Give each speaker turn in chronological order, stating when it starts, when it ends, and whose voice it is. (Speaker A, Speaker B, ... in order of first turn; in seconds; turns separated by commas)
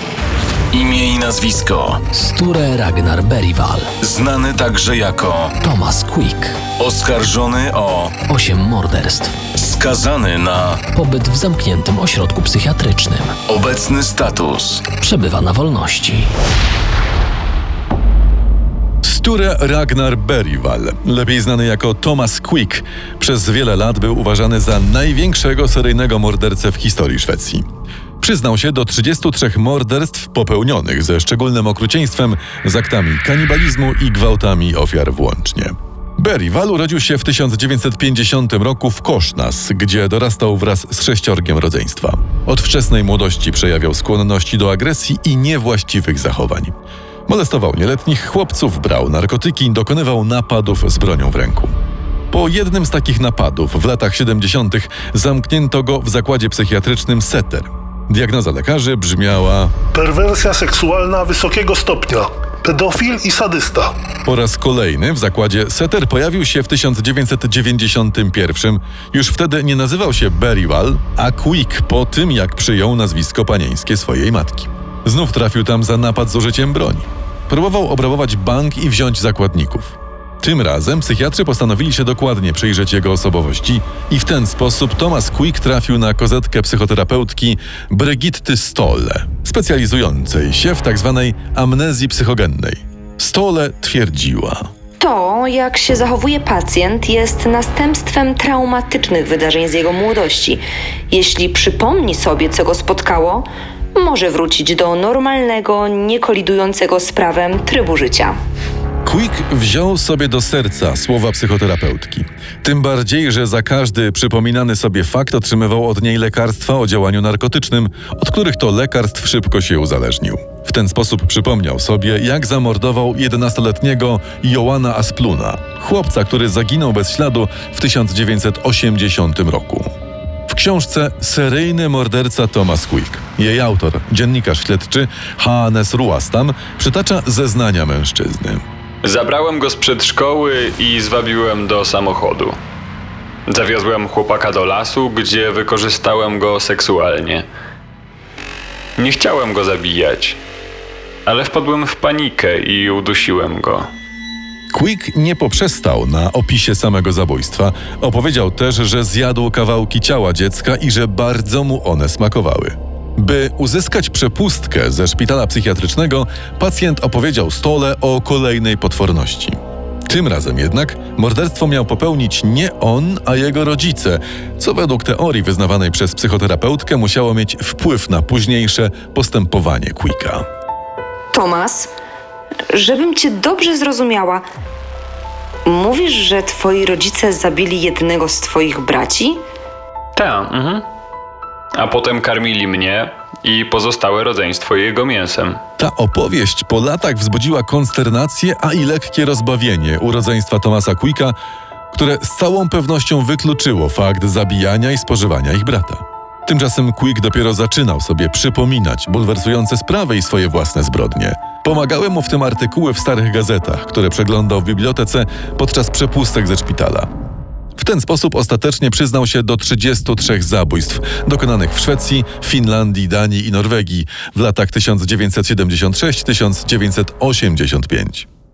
Speaker A: 0.7-2.0, Speaker B: 2.1-3.9, Speaker A: 4.0-5.5, Speaker B: 5.6-6.6, Speaker A: 6.8-8.2, Speaker B: 8.2-9.4, Speaker A: 9.5-10.9, Speaker B: 10.9-13.4, Speaker A: 13.5-14.9, Speaker B: 14.9-16.3, Speaker C: 19.0-27.6, Speaker C: 28.2-46.7, Speaker C: 47.3-51.8, Speaker C: 52.3-59.7, Speaker D: 59.9-63.9, Speaker C: 64.2-94.7, Speaker E: 95.0-108.4, Speaker C: 109.0-129.9, Speaker C: 130.5-138.6, Speaker F: 139.0-142.6, Speaker F: 143.5-147.4, Speaker F: 149.0-150.4, Speaker F: 151.3-153.9, Speaker C: 154.7-180.4, Speaker E: 181.3-181.9, Speaker E: 182.7-184.4, Speaker E: 185.7-189.4, Speaker F: 190.2-190.8, Speaker F: 191.7-195.6, Speaker C: 195.8-201.4, Speaker C: 201.9-217.1, Speaker C: 217.8-228.3